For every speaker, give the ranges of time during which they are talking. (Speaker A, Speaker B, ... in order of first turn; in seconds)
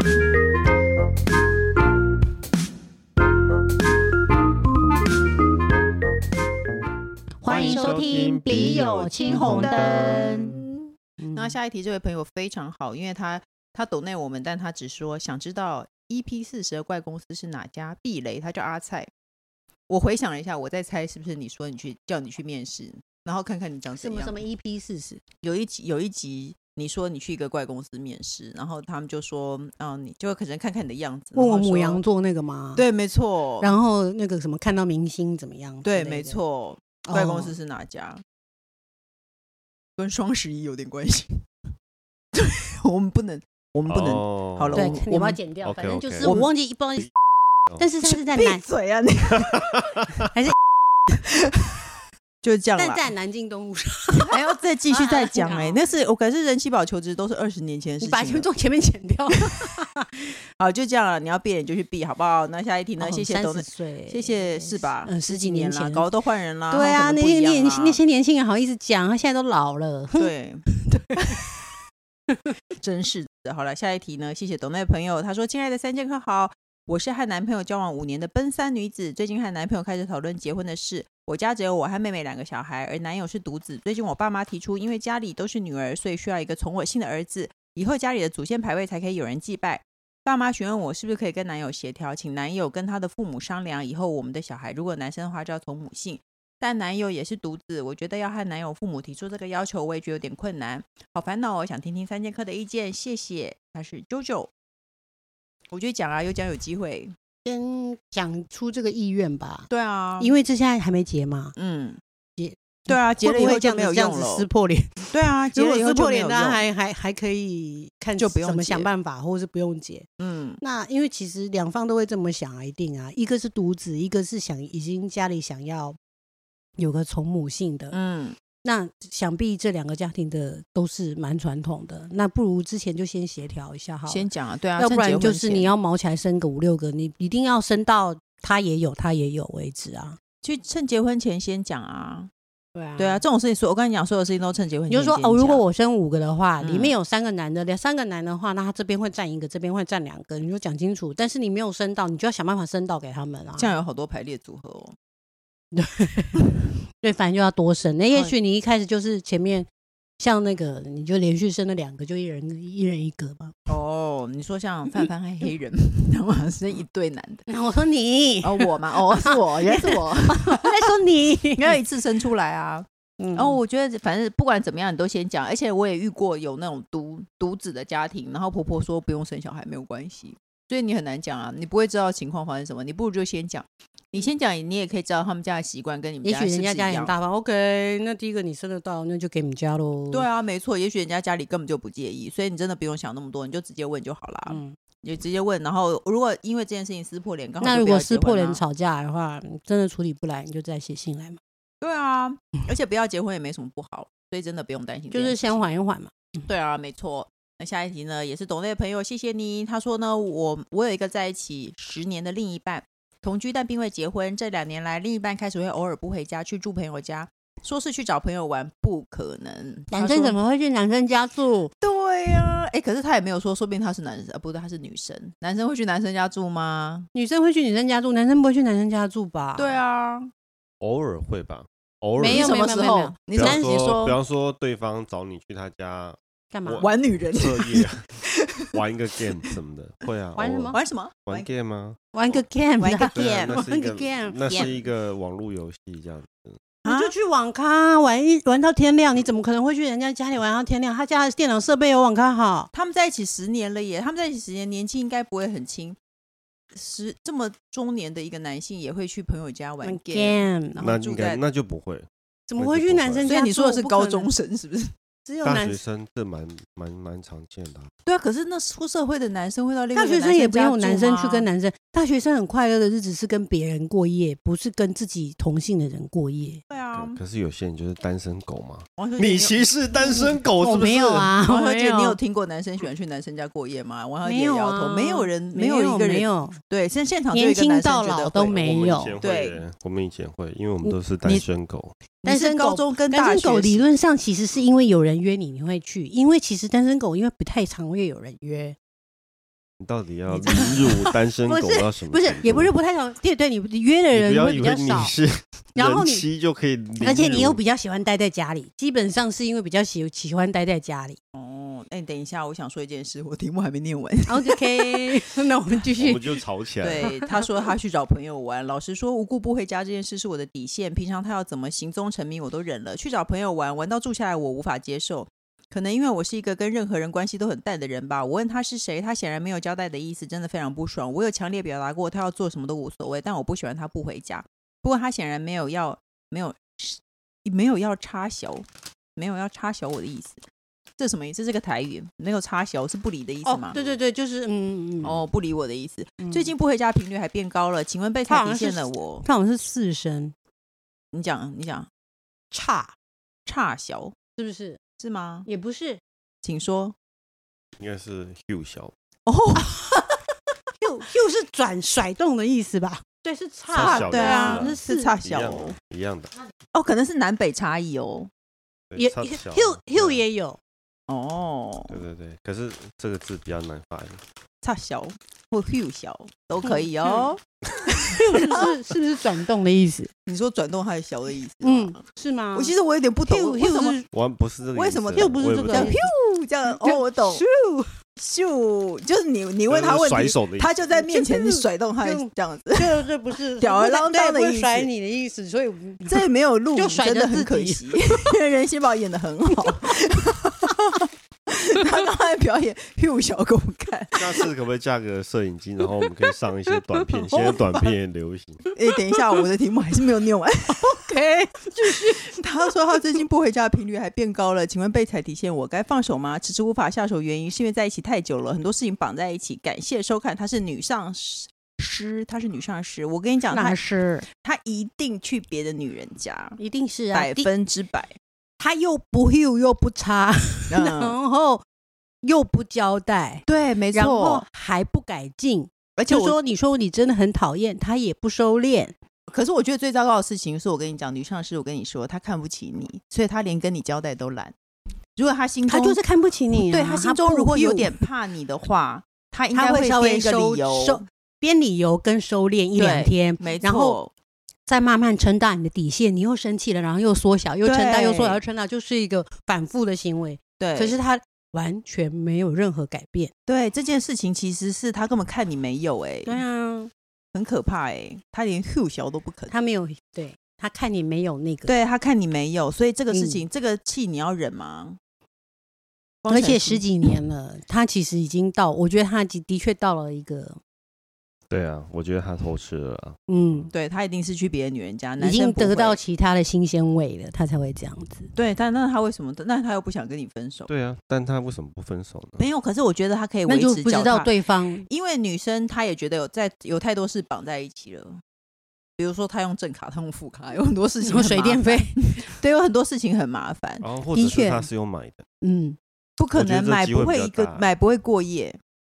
Speaker A: 7.4-10.5, 11.2-11.6, 24.0-25.2, 31.3-32.9, 33.6-36.4, 37.1-37.5, 44.7-47.1, 47.8-48.7, 50.3-50.6, 52.8-54.3, 54.9-55.8, 58.0-60.1, 63.0-66.1, 66.7-71.5, 107.5-111.5, 112.4-120.1, 120.6-126.0, 126.8-128.0, 128.6-140.2, 142.8-143.2, 144.9-153.8, 155.8-159.7, 160.2-163.6, 167.5-171.8, 173.2-173.6, 186.2-190.3, 194.5-194.8, 197.6-201.4, 205.1-206.5, 219.9-221.7, 227.1-229.8, 232.2-233.8, 236.5-236.9, 240.3-240.8, 242.1-244.7, 246.9-252.7, 259.8-260.9, 262.5-264.3, 265.3-265.8, 269.9-276.6, 280.0-282.2, 284.2-286.6, 287.3-289.2, 292.2-298.8, 300.3-305.2, 305.8-306.2, 307.0-311.2, 314.3-316.4, 317.0-317.4, 343.4-345.2, 346.2-346.5, 348.3-350.3, 352.5-352.9, 354.4-354.8, 355.5-356.0, 359.6-360.2, 360.8-365.2, 369.0-370.6, 376.6-377.3, 378.0-380.1, 381.6-382.7, 383.3-384.1, 385.1-386.1, 386.7-387.9, 390.9-398.4, 406.7-407.9, 410.8-412.3, 423.5-424.3, 426.6-427.5, 428.6-431.6, 432.2-439.0, 445.7-448.0, 449.5-454.0, 454.7-463.3, 466.3-466.9, 469.5-471.7, 473.1-473.4, 476.3-480.6, 483.3-483.7, 485.2-488.3, 493.5-494.9, 501.1-502.0, 504.1-504.7, 505.4-505.8
Speaker B: 7.5-10.5, 43.9-45.0, 45.6-46.4, 230.8-238.2, 238.7-242.4, 243.1-246.6, 260.8-263.3, 265.4-267.9, 276.9-281.3, 288.5-291.9, 299.8-302.7, 304.1-307.6, 316.0-317.2, 343.8-344.0, 357.8-358.9, 363.7-366.3, 368.9-370.2, 371.9-374.2, 384.1-386.0, 389.7-390.8, 404.1-408.6, 481.5-483.7, 490.7-492.5, 503.8-505.2, 506.3-507.7
Speaker C: 8.6-19.1, 19.9-24.4, 25.4-32.0, 32.8-33.7, 35.8-38.2, 40.0-41.5, 42.4-45.4, 46.2-46.5, 48.1-49.8, 52.4-53.1, 54.3-58.5, 60.6-68.0, 70.2-70.6, 72.8-104.5, 105.7-107.1, 109.7-110.3, 111.6-112.0, 112.9-114.5, 115.1-116.6, 118.2-118.9, 120.2-120.6, 127.9-128.4, 134.1-135.7, 140.4-142.3, 143.0-145.6, 146.6-146.9, 153.6-154.9, 163.7-167.4, 168.4-170.9, 171.6-187.1, 190.1-198.6, 201.8-205.6, 206.5-220.4, 221.8-227.1, 229.6-230.3, 232.2-234.2, 236.8-238.7, 240.7-241.5, 242.8-243.7, 244.5-244.8, 246.8-247.2, 252.7-256.0, 256.7-261.4, 263.2-264.9, 268.1-271.5, 276.7-277.2, 279.0-280.3, 281.4-288.6, 289.2-289.6, 292.2-293.9, 311.3-315.2, 316.8-340.4, 341.0-343.8, 345.0-349.3, 351.1-351.9, 353.5-354.1, 355.0-355.5, 356.4-356.9, 359.3-359.7, 363.8-365.8, 366.7-368.3, 371.1-372.0, 374.6-377.4, 378.4-378.7, 380.3-382.0, 382.5-384.0, 384.7-387.4, 388.2-393.0, 393.6-394.9, 396.1-404.4, 408.8-411.0, 411.7-426.6, 427.1-428.1, 430.7-431.1, 433.5-434.4, 436.0-436.4, 439.3-444.6, 445.2-446.0, 446.5-451.0, 452.8-454.1, 457.6-458.4, 460.6-461.0, 463.5-466.4, 467.3-469.5, 471.7-475.0, 476.2-476.9, 483.7-486.0, 488.4-490.7, 492.4-494.3, 494.9-498.2, 499.0-503.9, 506.2-508.6